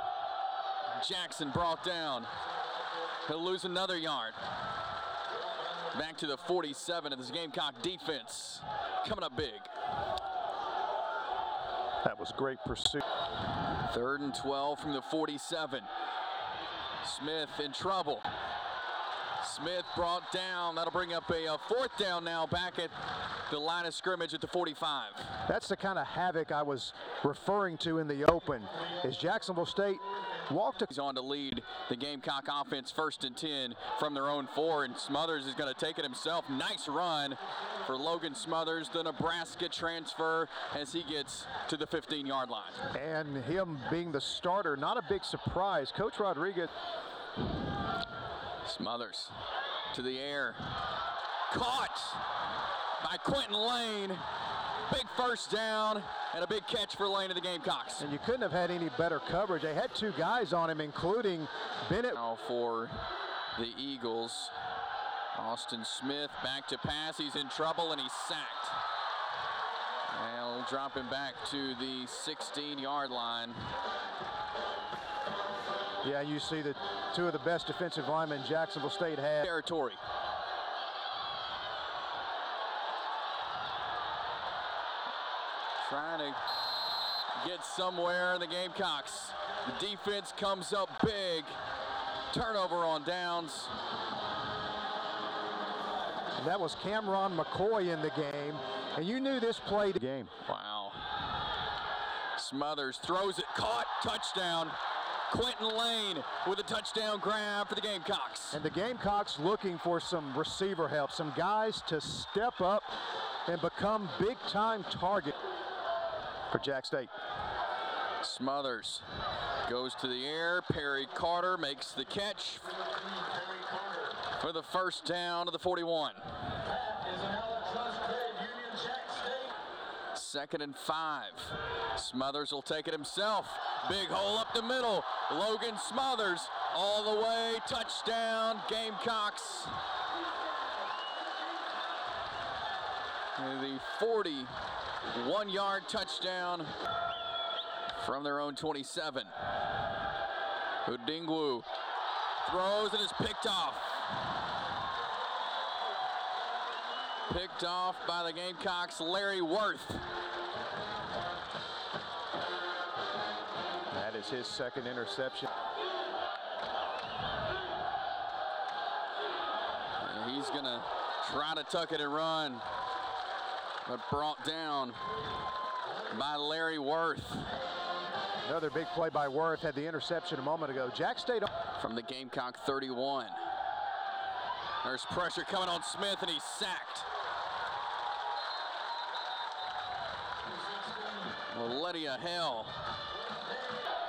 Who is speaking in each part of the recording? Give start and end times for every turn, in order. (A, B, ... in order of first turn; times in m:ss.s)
0:01.0-0:02.3 A
0:03.2-0:04.4 A
0:05.9-0:09.7 A
0:12.0-0:13.0 B
0:13.8-0:15.9 A
0:17.0-0:18.3 A
0:19.4-0:25.3 A
0:25.5-0:30.9 B
0:30.9-0:42.8 A
0:42.9-0:46.7 B
0:48.6-0:49.3 A
0:49.9-0:50.6 A
0:51.5-0:52.3 A
0:53.0-0:54.2 A
0:54.8-0:58.0 A
0:58.0-1:02.2 B
1:02.1-1:03.0 A
1:03.5-1:04.5 A
1:05.3-1:08.8 A
1:10.1-1:13.6 A
1:16.0-1:19.5 B
1:19.4-1:20.0 A
1:25.8-1:26.4 A
1:27.4-1:31.5 A
1:32.3-1:33.7 A
1:36.4-1:40.3 B
1:40.4-1:41.2 A
1:42.4-1:44.7 A
1:45.3-1:48.6 A
1:48.5-1:52.9 B
1:53.4-1:55.3 B
1:56.5-1:57.1 B
1:58.2-1:59.0 A
1:59.6-2:02.7 A
2:04.3-2:06.3 A
2:10.1-2:19.7 A
2:23.4-2:24.5 A
2:25.1-2:26.7 A
2:27.9-2:29.3 A
2:30.8-2:31.6 A
2:32.4-2:34.2 A
2:37.3-2:40.0 A
2:43.9-2:45.5 B
2:50.0-2:52.6 A
2:53.8-2:55.0 A
2:56.1-2:57.5 A
2:58.4-3:01.5 B
3:01.8-3:03.4 A
3:04.8-3:07.1 A
3:11.5-3:12.8 A